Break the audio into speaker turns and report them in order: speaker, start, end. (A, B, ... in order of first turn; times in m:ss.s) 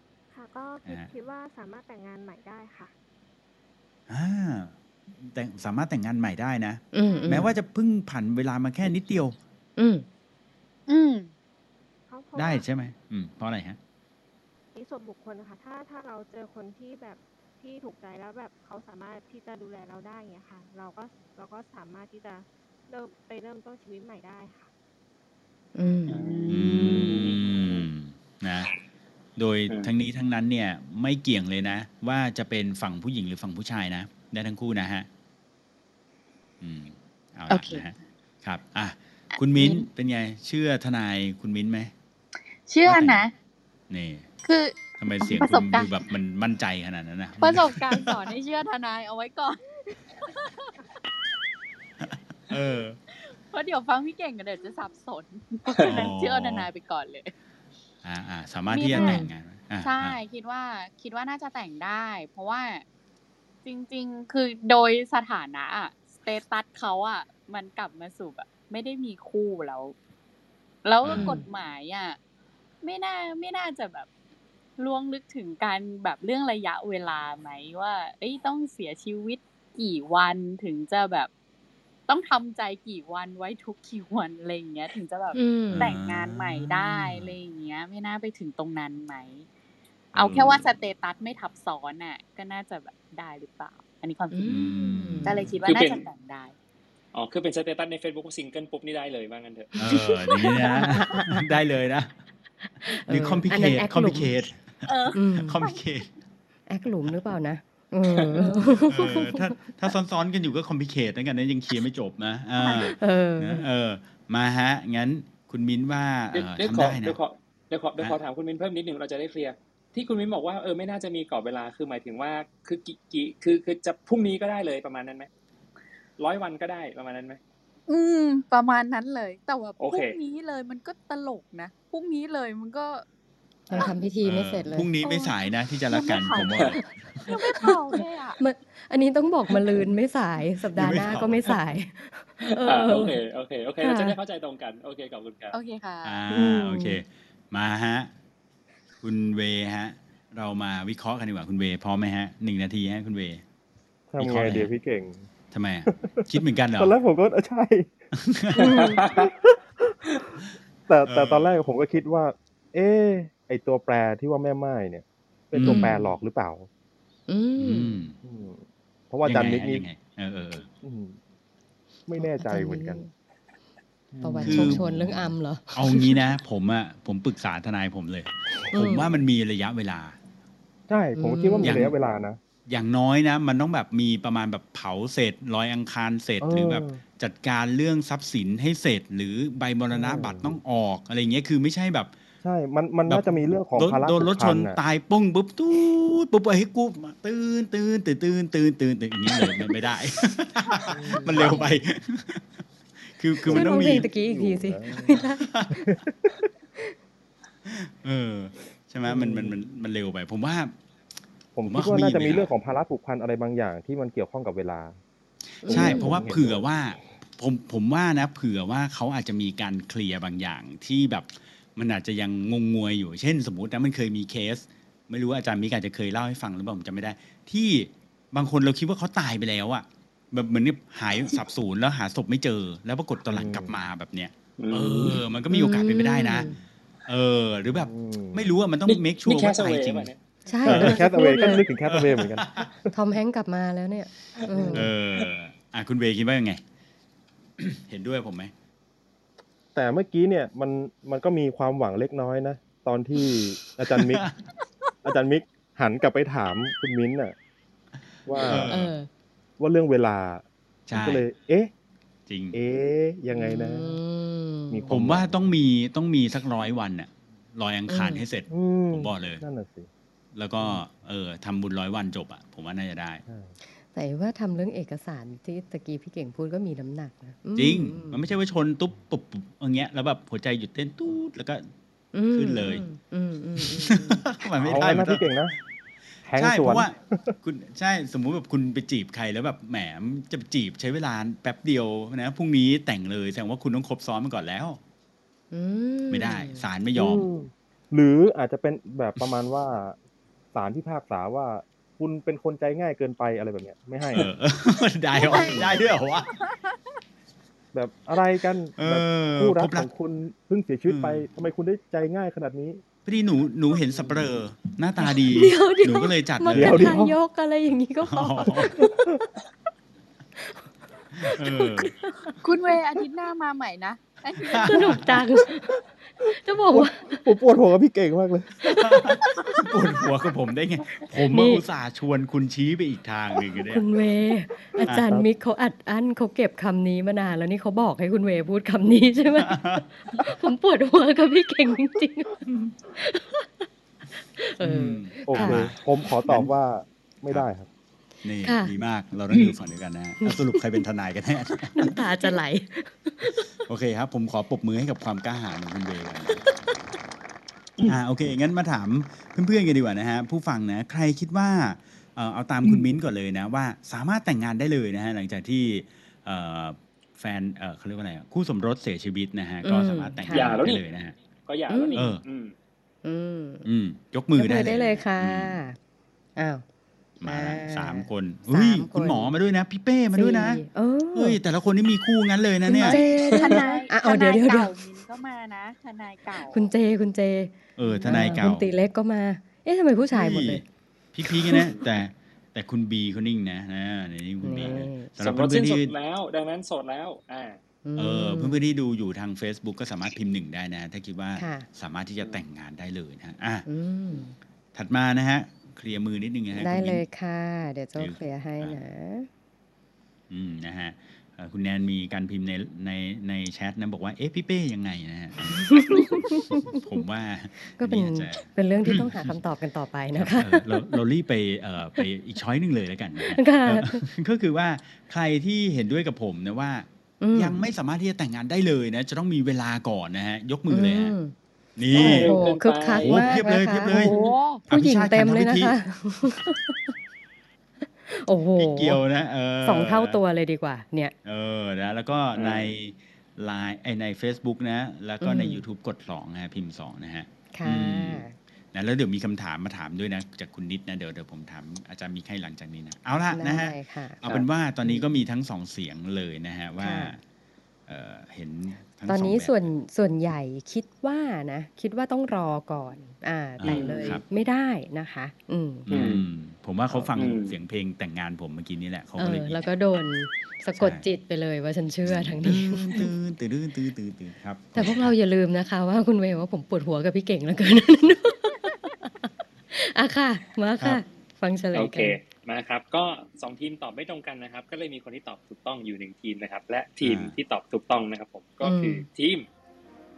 0:00.3-0:02.9 A
0:04.1-0:09.4 B
0:06.9-0:07.5 C
0:07.0-0:07.5 A
0:09.8-0:10.1 C
0:10.9-0:11.3 D
0:12.1-0:12.7 A
0:12.4-0:13.8 B
0:14.7-0:24.7 A
0:25.8-0:26.2 C
0:26.1-0:27.5 D
0:26.1-0:27.8 E
0:26.5-0:28.7 B
0:29.4-0:35.1 B
0:36.6-0:41.9 B
0:37.5-0:37.9 D
0:39.3-0:39.9 D
0:42.7-0:43.3 D
0:42.8-0:43.2 B
0:43.9-0:44.3 B
0:44.4-0:45.9 D
0:45.0-0:48.2 B
0:47.4-0:50.7 D
0:52.0-0:53.0 B
0:53.2-0:57.3 D
0:55.8-0:56.7 B
0:58.0-1:00.2 B
0:58.7-0:59.3 D
0:58.9-0:59.3 C
0:59.8-1:02.8 D
1:03.6-1:10.0 D
1:10.8-1:12.2 D
1:11.0-1:11.4 B
1:11.1-1:11.4 C
1:12.8-1:14.1 D
1:14.8-1:21.3 D
1:22.1-1:29.5 D
1:25.3-1:25.9 C
1:25.7-1:27.3 B
1:30.1-1:30.7 B
1:30.2-1:34.7 D
1:34.3-1:35.5 C
1:34.5-1:35.5 B
1:35.2-1:36.5 D
1:35.6-1:36.0 E
1:37.1-1:39.7 E
1:39.8-1:41.4 C
1:39.8-1:42.1 B
1:42.8-1:44.3 C
1:43.1-1:46.1 B
1:44.8-1:45.8 D
1:45.1-1:45.6 C
1:46.7-1:49.6 C
1:48.3-1:48.8 D
1:48.9-1:57.2 B
1:52.6-1:52.9 D
1:52.8-1:53.6 C
1:56.3-2:05.3 E
2:06.2-2:07.4 E
2:07.9-2:13.0 D
2:09.8-2:10.2 E
2:13.7-2:14.9 C
2:14.2-2:17.3 B
2:15.0-2:15.4 D
2:15.9-2:18.4 D
2:17.5-2:17.8 C
2:18.4-2:23.2 C
2:20.8-2:21.6 B
2:22.6-2:25.6 E
2:23.8-2:24.2 C
2:25.5-2:26.3 D
2:26.0-2:28.1 B
2:26.3-2:27.0 C
2:29.0-2:33.4 B
2:34.1-2:35.2 F
2:34.2-2:34.7 B
2:35.5-2:37.0 B
2:35.9-2:36.2 F
2:36.8-2:37.9 F
2:38.1-2:38.8 B
2:38.6-2:39.1 C
2:39.0-2:40.2 F
2:40.9-2:46.7 F
2:41.1-2:41.6 B
2:45.5-2:45.9 B
2:45.6-2:46.2 C
2:47.3-2:48.0 C
2:47.6-2:48.2 B
2:48.2-2:49.9 F
2:49.2-2:50.7 B
2:50.8-2:51.2 F
2:52.1-2:53.0 F
2:52.2-2:53.1 C
2:54.1-2:55.2 F
2:54.2-2:56.2 C
2:54.4-3:00.2 B
2:58.7-2:59.1 C
3:00.9-3:02.4 F
3:01.2-3:01.9 C
3:01.6-3:01.9 B
3:02.7-3:12.1 B
3:06.4-3:07.0 F
3:09.9-3:10.6 F
3:12.4-3:14.8 F
3:13.1-3:22.4 B
3:20.9-3:21.7 F
3:21.3-3:21.6 C
3:23.2-3:24.1 B
3:23.4-3:25.2 F
3:23.5-3:25.9 C
3:25.4-3:25.7 B
3:25.9-3:26.3 F
3:27.7-3:30.7 B
3:29.0-3:29.6 F
3:31.6-3:35.0 F
3:31.7-3:32.5 B
3:35.6-3:56.5 B
3:35.6-3:36.2 C
3:35.7-3:36.7 F
3:53.3-3:53.7 F
3:54.6-3:55.2 E
3:55.5-3:56.5 C
3:57.1-4:00.1 B
3:57.8-3:58.5 F
3:58.9-4:00.2 E
4:00.5-4:01.6 C
4:00.6-4:02.9 F
4:00.7-4:01.0 B
4:01.9-4:02.7 B
4:02.9-4:04.9 C
4:04.5-4:04.9 F
4:04.7-4:06.6 B
4:07.6-4:08.5 B
4:09.8-4:14.3 F
4:13.9-4:14.4 B
4:15.0-4:17.4 F
4:18.3-4:18.7 F
4:18.4-4:18.9 B
4:18.6-4:19.1 C
4:19.6-4:21.7 F
4:20.9-4:21.2 B
4:22.3-4:22.6 B
4:22.5-4:24.0 F
4:23.3-4:24.9 C
4:24.7-4:25.4 F
4:24.9-4:29.4 B
4:27.9-4:28.2 C
4:28.5-4:29.9 F
4:30.4-4:33.2 B
4:33.3-4:33.6 F
4:33.9-4:38.2 C
4:37.6-4:41.7 B
4:42.1-4:44.3 C
4:42.3-4:42.8 B
4:43.6-4:45.3 B
4:44.6-4:45.6 F
4:46.2-4:47.4 F
4:46.4-4:54.8 B
4:55.5-4:56.6 C
4:56.1-4:57.2 B
4:57.0-5:00.0 F
5:00.5-5:04.3 F
5:04.1-5:06.3 B
5:05.2-5:05.8 D
5:05.3-5:05.7 F
5:07.7-5:12.8 F
5:08.8-5:09.9 B
5:10.9-5:11.3 B
5:13.1-5:17.0 B
5:15.1-5:19.0 C
5:16.5-5:17.2 F
5:18.1-5:18.7 B
5:21.2-5:21.9 B
5:21.2-5:21.9 C
5:22.4-5:25.2 D
5:24.4-5:25.0 B
5:24.6-5:25.8 C
5:26.4-5:27.2 C
5:26.7-5:29.1 F
5:28.6-5:33.8 B
5:31.3-5:31.6 C
5:33.6-5:43.7 C
5:39.4-5:39.8 B
5:44.2-5:45.8 C
5:44.6-5:46.5 B
5:45.3-5:47.7 F
5:48.2-5:52.0 B
5:48.4-5:48.7 C
5:50.2-5:50.6 C
5:51.7-5:53.5 C
5:53.7-5:56.4 B
5:57.8-6:11.2 B
6:09.6-6:10.6 C
6:10.3-6:10.8 E
6:11.5-6:12.5 E
6:11.7-6:12.1 C
6:12.0-6:12.2 B
6:13.0-6:13.7 C
6:13.6-6:15.6 B
6:14.4-6:15.8 C
6:16.4-6:16.6 C
6:17.2-6:20.6 B
6:17.2-6:19.4 C
6:20.1-6:21.4 C
6:21.1-6:23.0 B
6:22.7-6:24.7 C
6:22.8-6:26.7 D
6:26.5-6:30.6 C
6:27.8-6:28.7 B
6:30.1-6:35.9 B
6:31.3-6:31.7 C
6:34.4-6:35.1 C
6:35.2-6:37.6 E
6:37.8-6:38.6 C
6:38.0-6:43.7 B
6:41.4-6:41.7 C
6:43.7-6:44.4 C
6:44.8-6:47.0 B
6:46.6-6:49.3 C
6:48.0-6:48.8 B
6:50.3-6:59.3 B
6:55.7-6:56.7 C
6:57.8-7:00.8 C
7:00.2-7:11.2 B
7:03.3-7:04.1 C
7:07.2-7:07.6 C
7:10.7-7:11.3 C
7:11.8-7:12.4 B
7:11.9-7:14.2 C
7:11.9-7:13.4 E
7:13.0-7:14.2 B
7:13.9-7:14.6 D
7:14.7-7:15.8 B
7:14.7-7:16.9 C
7:18.0-7:19.0 C
7:18.6-7:20.2 B
7:19.6-7:21.2 C
7:21.2-7:37.2 B
7:22.4-7:22.7 E
7:25.2-7:25.6 C
7:27.5-7:28.4 C
7:33.3-7:35.1 C
7:36.8-7:37.2 C
7:37.9-7:39.7 B
7:39.1-7:45.9 C
7:43.6-7:44.2 B
7:43.7-7:44.2 E
7:45.9-7:49.7 B
7:45.9-7:46.2 E
7:47.2-7:47.5 E
7:49.2-7:53.1 C
7:50.8-7:51.0 B
7:52.1-7:55.1 B
7:54.8-8:02.2 C
8:01.7-8:09.5 E
8:07.0-8:07.4 B
8:08.6-8:09.0 C